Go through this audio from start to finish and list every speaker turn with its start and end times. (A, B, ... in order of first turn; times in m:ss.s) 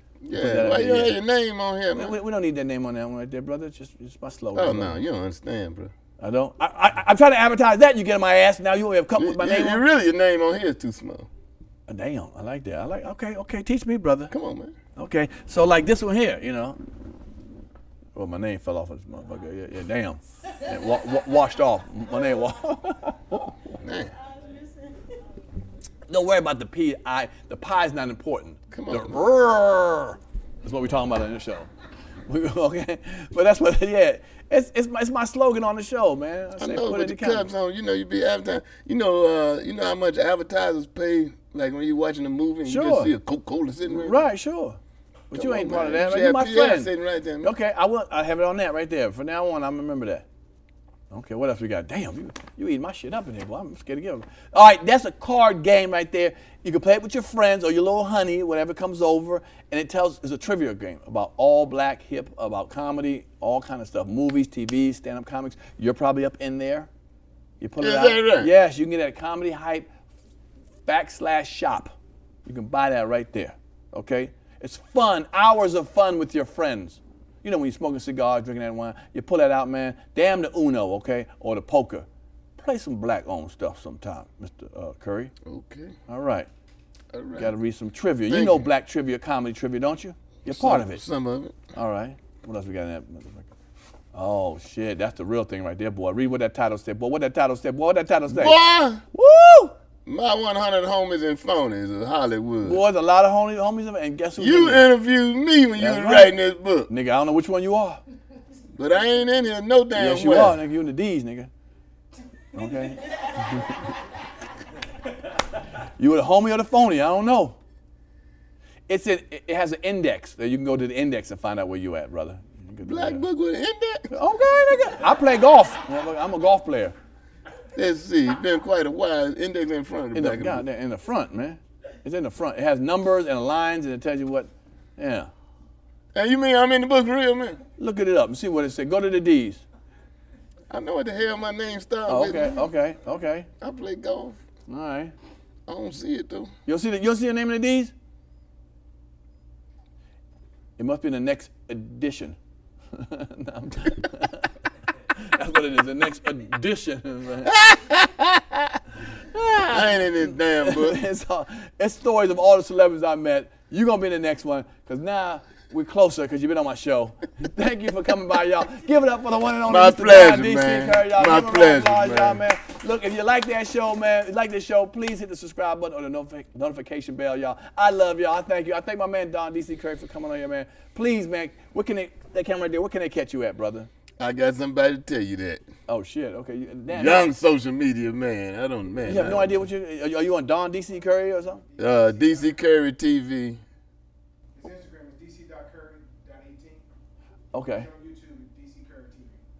0:00.2-0:02.2 A
0:00.3-0:01.2 B
0:01.9-0:05.0 B
0:04.5-0:05.9 A
0:06.2-0:09.8 B
0:09.1-0:11.3 A
0:11.9-0:14.3 B
0:14.3-0:14.7 A
0:15.0-0:16.8 B
0:18.1-0:23.5 B
0:23.8-0:24.1 A
0:26.1-0:31.7 B
0:28.7-0:29.2 A
0:32.3-0:37.5 B
0:36.6-0:44.3 A
0:42.6-0:43.1 B
0:43.8-0:44.8 B
0:45.3-0:46.9 B
0:45.3-0:47.5 A
0:47.4-0:50.2 B
0:51.1-1:06.9 B
1:07.6-1:09.9 B
1:07.8-1:08.5 A
1:10.8-1:25.3 B
1:25.4-1:25.9 A
1:26.1-1:26.5 B
1:27.1-1:27.5 A
1:27.4-1:31.0 B
1:28.3-1:28.7 A
1:30.5-1:31.6 A
1:31.7-1:33.5 B
1:34.1-1:38.6 B
1:38.3-1:39.0 A
1:39.1-1:39.7 B
1:40.0-1:42.8 A
1:42.6-1:44.8 B
1:44.4-1:46.9 A
1:45.8-1:46.4 B
1:46.9-1:48.0 B
1:48.8-1:50.6 A
1:49.9-1:51.5 B
1:52.5-1:53.9 B
1:56.0-1:57.6 B
1:58.9-2:03.2 B
2:02.8-2:04.1 A
2:04.1-2:06.9 B
2:07.7-2:10.6 A
2:10.1-2:15.3 B
2:16.1-2:17.6 A
2:17.8-2:19.6 B
2:20.7-2:22.6 A
2:22.1-2:23.5 B
2:23.6-2:24.4 A
2:24.7-2:25.1 B
2:25.7-2:26.5 A
2:26.6-2:27.9 B
2:30.8-2:32.4 B
2:32.9-2:34.5 B
2:35.1-2:37.6 B
2:37.4-2:38.8 A
2:39.3-2:41.0 A
2:39.7-3:03.9 B
2:49.6-2:52.4 A
3:04.2-3:05.6 A
3:05.9-3:07.3 B
3:06.9-3:09.6 A
3:09.0-3:11.6 B
3:11.6-3:12.6 C
3:11.8-3:13.6 A
3:14.6-3:16.8 C
3:17.5-3:17.9 B
3:17.7-3:19.3 C